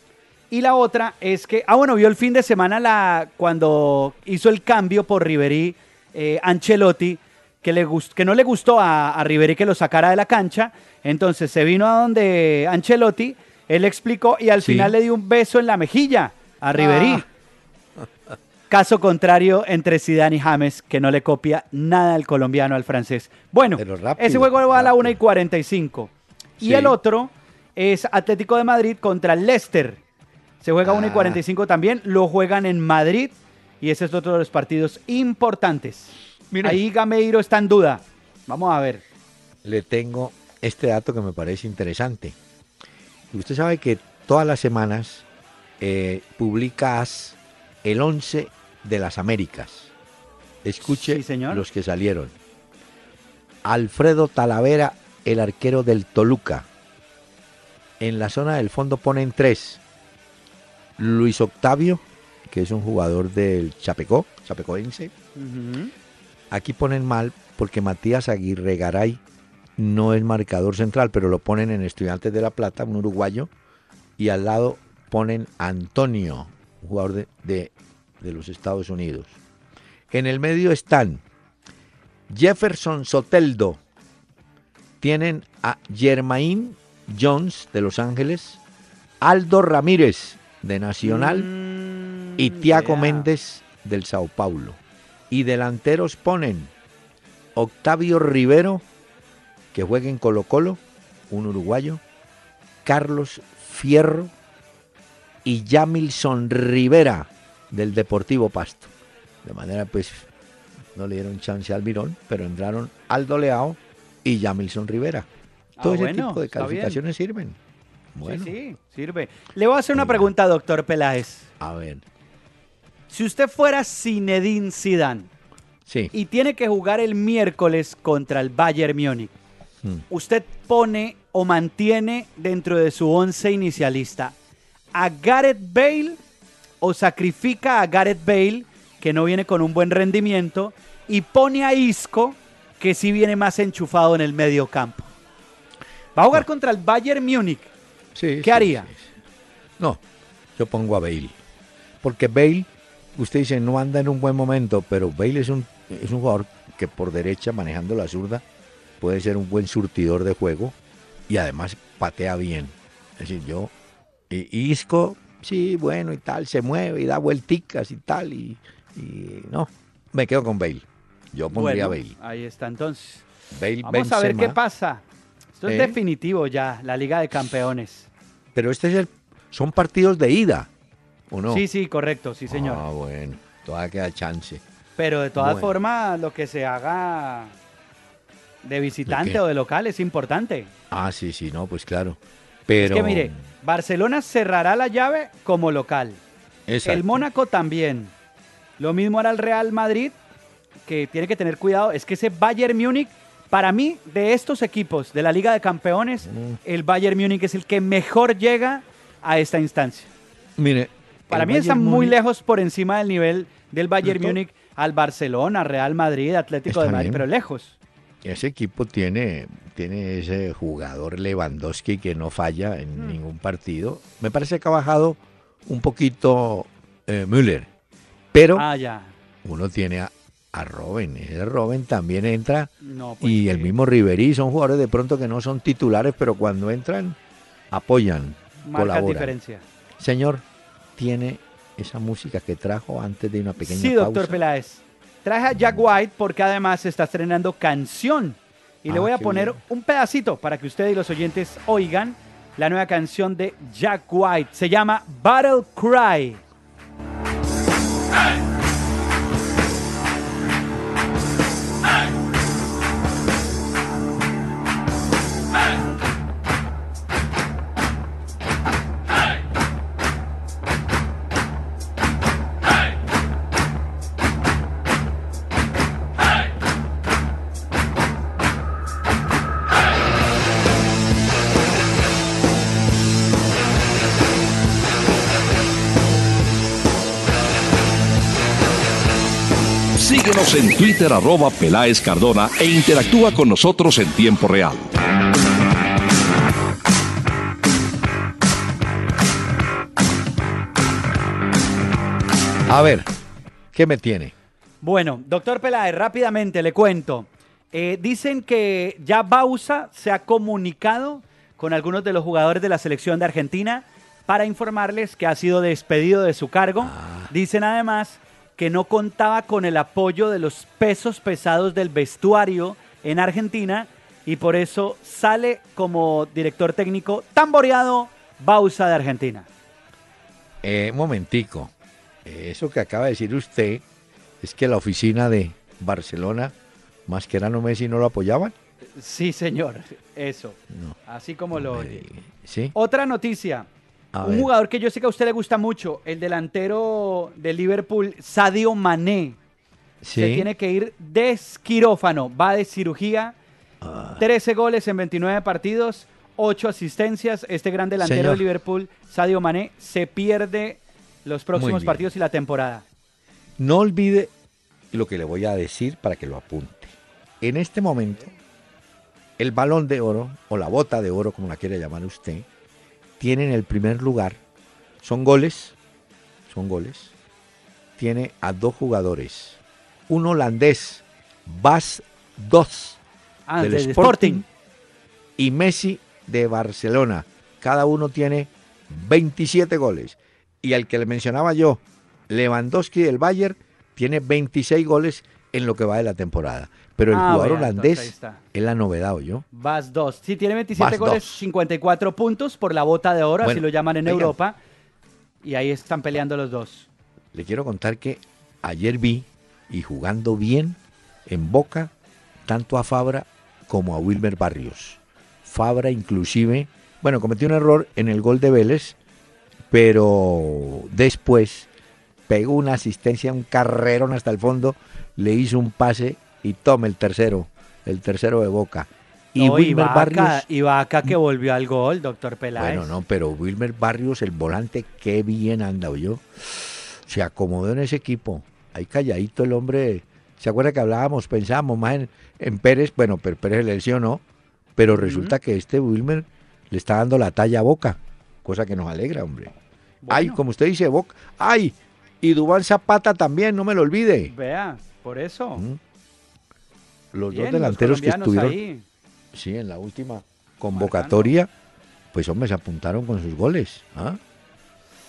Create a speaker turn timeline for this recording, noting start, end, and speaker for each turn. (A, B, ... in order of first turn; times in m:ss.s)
0:00.5-0:17.2 A
0:14.6-0:14.9 B
0:16.8-0:17.3 B
0:18.7-0:30.0 A
0:23.8-0:25.2 B
0:26.6-0:27.0 B
0:30.6-0:39.0 A
0:30.8-0:31.4 B
0:36.5-0:36.8 B
0:39.6-0:42.4 B
0:43.3-0:45.2 B
0:45.8-0:49.9 B
0:50.6-0:52.3 B
0:50.8-0:51.6 A
0:53.6-0:56.7 B
0:58.0-0:59.8 B
1:01.0-1:05.1 B
1:05.4-1:05.9 A
1:06.5-1:09.2 B
1:09.8-1:13.5 B
1:14.2-1:19.4 B
1:20.1-1:21.2 B
1:22.3-1:23.8 B
1:25.0-1:28.6 B
1:29.2-1:31.5 B
1:31.0-1:33.3 A
1:32.4-1:36.7 B
1:37.6-1:38.8 B
1:39.7-1:42.0 B
1:42.8-1:44.3 B
1:45.4-1:48.9 B
1:49.4-1:50.3 B
1:51.0-1:55.3 B
1:55.8-1:57.0 A
1:55.8-1:57.6 B
1:58.1-1:58.6 B
1:58.2-2:01.5 A
1:59.9-2:00.3 B
2:01.6-2:02.0 B
2:03.1-2:05.3 A
2:05.9-2:06.1 B
2:06.1-2:09.3 A
2:10.1-2:14.4 A
2:14.9-2:16.2 A
2:16.8-2:25.1 A
2:26.2-2:27.7 A
2:28.2-2:29.1 B
2:28.4-2:28.9 A
2:30.6-2:31.4 B
2:32.0-2:38.4 B
2:39.0-2:40.8 B
2:41.3-2:43.7 B
2:44.3-2:52.1 B
2:51.5-2:53.2 A
2:53.5-2:54.6 B
2:53.8-2:55.0 A
2:55.6-2:58.1 A
2:55.7-2:56.0 B
2:58.5-3:00.7 B
3:01.3-3:01.6 B
3:01.5-3:02.8 A
3:02.5-3:04.6 B
3:05.0-3:07.5 A
3:05.4-3:05.8 B
3:08.6-3:10.7 A
3:09.1-3:09.4 B
3:10.9-3:13.4 B
3:12.8-3:16.2 A
3:16.7-3:17.2 B
3:16.8-3:18.1 A
3:18.8-3:20.2 A
3:20.9-3:30.1 A
3:26.3-3:26.6 B
3:30.6-3:32.2 B
3:31.3-3:37.8 A
3:34.0-3:34.4 B
3:36.7-3:37.3 B
3:38.2-3:47.7 B
3:48.3-3:48.7 B
3:48.6-3:49.1 A
3:49.4-3:57.2 B
3:52.8-3:53.7 A
3:57.7-3:59.3 B
3:58.6-3:59.6 A
4:00.0-4:00.4 B
4:01.0-4:04.4 B
4:03.6-4:16.4 A
4:08.9-4:09.6 B
4:50.0-4:54.9 C
5:02.7-5:03.1 B
5:03.7-5:04.3 B
5:04.8-5:29.5 A
5:16.8-5:17.3 B
5:30.6-5:31.7 B
5:32.2-5:33.8 B
5:34.4-5:36.6 B
5:37.1-5:38.5 B
5:39.0-5:42.0 A
5:40.7-5:41.0 B
5:41.5-5:42.8 B
5:42.7-5:43.7 A
5:44.1-5:44.5 B
5:44.2-5:49.4 A
5:50.0-5:50.5 B
5:50.1-5:53.4 A
5:53.8-5:54.2 B
5:54.2-6:02.8 A
5:58.0-5:58.4 B
6:01.6-6:02.1 B
6:03.6-6:04.3 B
6:04.9-6:08.3 B
6:09.4-6:12.5 B
6:13.2-6:14.4 B
6:15.0-6:15.8 B
6:16.5-6:17.1 B
6:18.0-6:23.0 B
6:23.5-6:24.4 A
6:23.6-6:24.4 B
6:25.4-6:39.5 B
6:37.1-6:38.4 A
6:39.5-6:44.6 A
6:40.7-6:41.5 B
6:43.4-6:44.3 B
6:45.4-6:46.9 A
6:47.3-6:51.9 B
6:52.5-6:59.0 B
6:59.7-7:01.7 B
7:02.3-7:10.4 B
7:09.4-7:13.0 A
7:12.6-7:24.2 B
7:24.8-7:29.5 B
7:25.0-7:25.4 A
7:30.0-7:30.4 A
7:30.1-7:34.3 B
7:34.3-7:35.6 A
7:37.1-7:38.6 B
7:37.3-7:38.8 A
7:39.3-7:41.5 B
7:40.7-7:41.3 A
7:42.1-7:44.2 B